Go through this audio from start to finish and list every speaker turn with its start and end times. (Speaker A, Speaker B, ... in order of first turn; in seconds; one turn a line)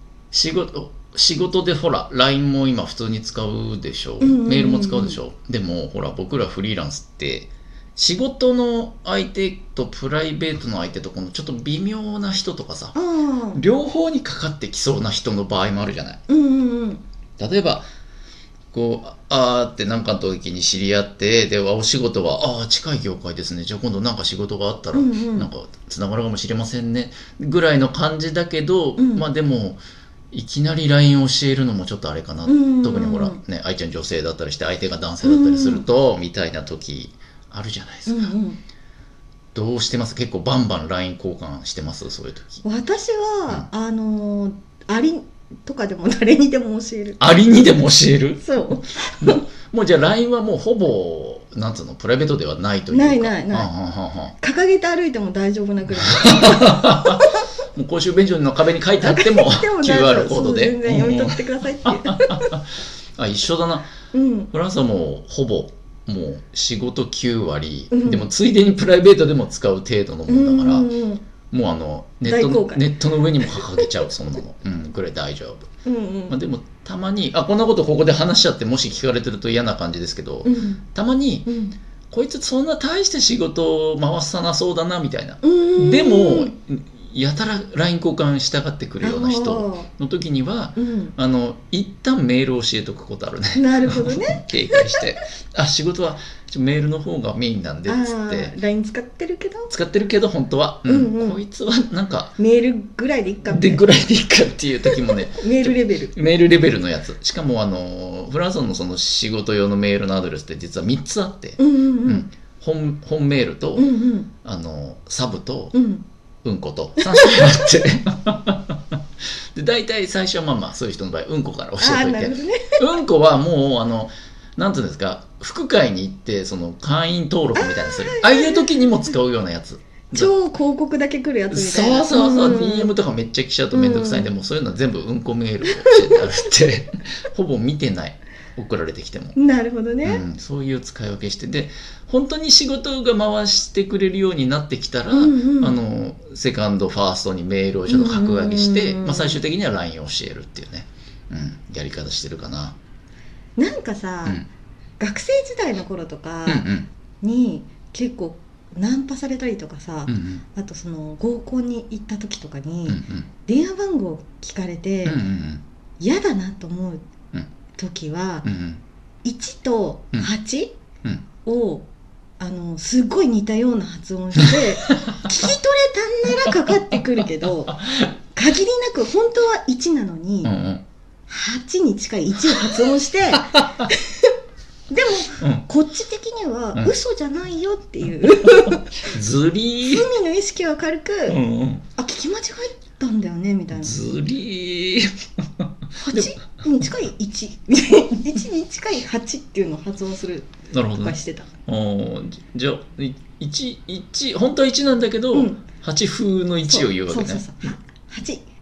Speaker A: 0.3-13.0
Speaker B: 4.2-5.2
Speaker B: 12.9-13.6
Speaker A: 13.5-16.2
Speaker B: 16.3-17.0
Speaker A: 17.4-17.9
Speaker A: 18.7-29.8
Speaker B: 24.9-25.5
Speaker B: 29.0-29.2
Speaker A: 30.3-38.3
Speaker B: 32.5-33.4
Speaker B: 35.2-35.9
Speaker B: 38.1-38.6
Speaker A: 39.5-42.6
Speaker B: 42.6-47.2
Speaker A: 47.2-48.6
Speaker B: 48.4-49.4
Speaker A: 49.1-54.4
Speaker B: 52.9-53.7
Speaker B: 54.4-57.3
Speaker A: 56.0-62.6
Speaker B: 59.0-62.5
Speaker A: 63.2-63.9
Speaker B: 64.1-64.5
Speaker A: 64.5-70.9
Speaker B: 67.9-68.3
Speaker B: 70.3-71.2
Speaker A: 71.5-75.7
Speaker B: 72.2-73.8
Speaker B: 75.8-76.3
Speaker A: 76.3-81.5
Speaker B: 80.5-80.8
Speaker B: 81.5-81.8
Speaker A: 82.1-98.5
Speaker B: 85.4-86.5
Speaker B: 89.0-89.9
Speaker B: 90.8-91.2
Speaker B: 93.5-95.0
Speaker B: 97.9-99.7
Speaker A: 99.7-102.4
Speaker B: 100.8-101.4
Speaker B: 102.4-103.9
Speaker A: 103.5-113.9
Speaker B: 104.9-106.1
Speaker B: 111.6-112.3
Speaker B: 113.8-114.3
Speaker A: 114.4-115.8
Speaker B: 115.7-116.0
Speaker A: 116.4-118.8
Speaker B: 117.0-117.6
Speaker A: 119.5-130.3
Speaker B: 121.8-122.8
Speaker B: 127.6-128.7
Speaker B: 130.1-132.9
Speaker A: 131.5-139.4
Speaker B: 133.7-134.3
Speaker B: 135.8-136.2
Speaker B: 139.4-140.2
Speaker A: 140.0-152.8
Speaker B: 145.1-145.8
Speaker B: 147.9-149.4
Speaker B: 153.6-154.4
Speaker B: 155.0-156.7
Speaker A: 156.5-156.9
Speaker B: 157.2-165.2
Speaker A: 160.1-160.4
Speaker A: 162.9-163.3
Speaker A: 165.1-165.6
Speaker B: 166.0-167.1
Speaker B: 167.8-168.5
Speaker A: 168.4-168.8
Speaker B: 169.2-170.8
Speaker B: 171.5-171.9
Speaker B: 172.4-180.5
Speaker A: 175.0-175.3
Speaker A: 180.4-180.8
Speaker B: 181.3-184.3
Speaker A: 183.4-183.9
Speaker B: 184.9-189.1
Speaker A: 185.4-185.7
Speaker A: 189.0-190.1
Speaker B: 189.8-191.4
Speaker A: 191.3-191.9
Speaker B: 192.0-193.9
Speaker A: 193.8-196.3
Speaker B: 196.0-201.5
Speaker A: 200.7-207.5
Speaker B: 205.3-205.6
Speaker B: 206.7-208.4